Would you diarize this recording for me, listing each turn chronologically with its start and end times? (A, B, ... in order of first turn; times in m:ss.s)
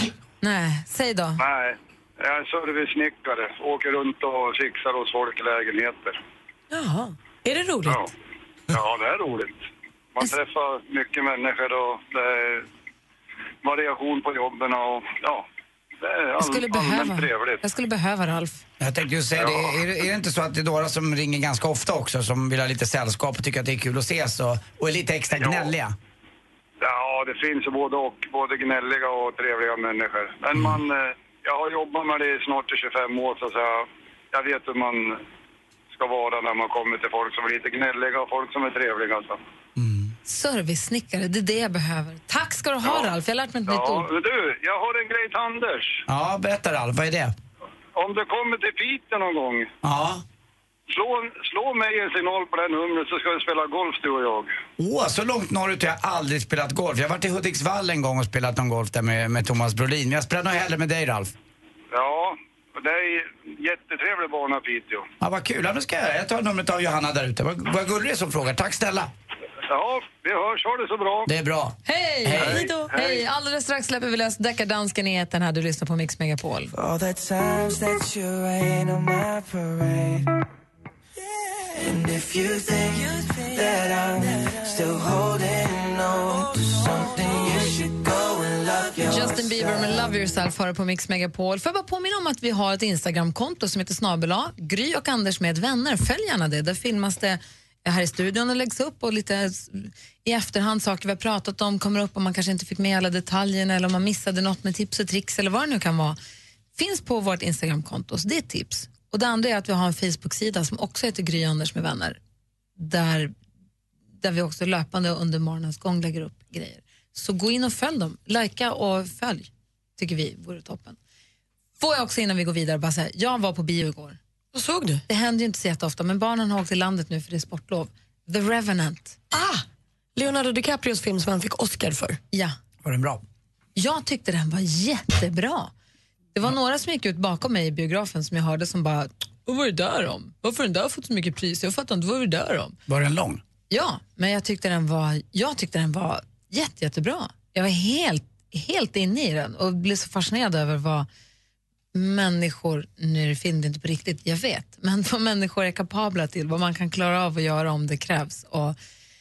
0:00.4-0:01.4 A
0:01.4-0:06.2 B
0:06.7-0:08.1 C
0:08.7-0:09.6 B
0:10.1-0:12.7 B
0:13.6-0:15.4 B
0:16.0-0:17.6 B
0:16.4-0:18.6 A
0:18.8-0:25.9 D
0:19.4-0:19.7 B
0:25.4-0:25.7 B
0:26.8-0:35.2 B
0:35.9-0:39.4 B
0:39.8-0:40.1 D
0:40.2-0:44.1 A
0:42.8-0:43.1 B
0:43.7-0:46.0 B
0:46.1-0:47.3 D
0:48.0-0:49.7 B
0:49.8-0:50.2 D
0:50.9-0:54.5 B
0:54.8-1:01.3 D
1:01.9-1:05.1 B
1:05.2-1:09.1 D
1:09.7-1:11.3 B
1:11.2-1:12.7 D
1:11.8-1:16.7 A
1:12.4-1:12.9 C
1:12.4-1:13.2 B
1:16.7-1:20.3 E
1:21.7-1:29.9 E
1:29.1-1:46.2 A
1:46.8-1:52.2 A
1:52.8-1:53.3 A
1:54.2-2:01.0 A
2:01.8-2:04.2 A
2:04.5-2:05.0 C
2:05.1-2:09.2 A
2:09.3-2:12.2 C
2:12.8-2:13.2 D
2:13.8-2:15.7 A
2:16.3-2:22.8 A
2:22.9-2:23.4 D
2:23.7-2:31.1 A
2:31.9-2:38.8 A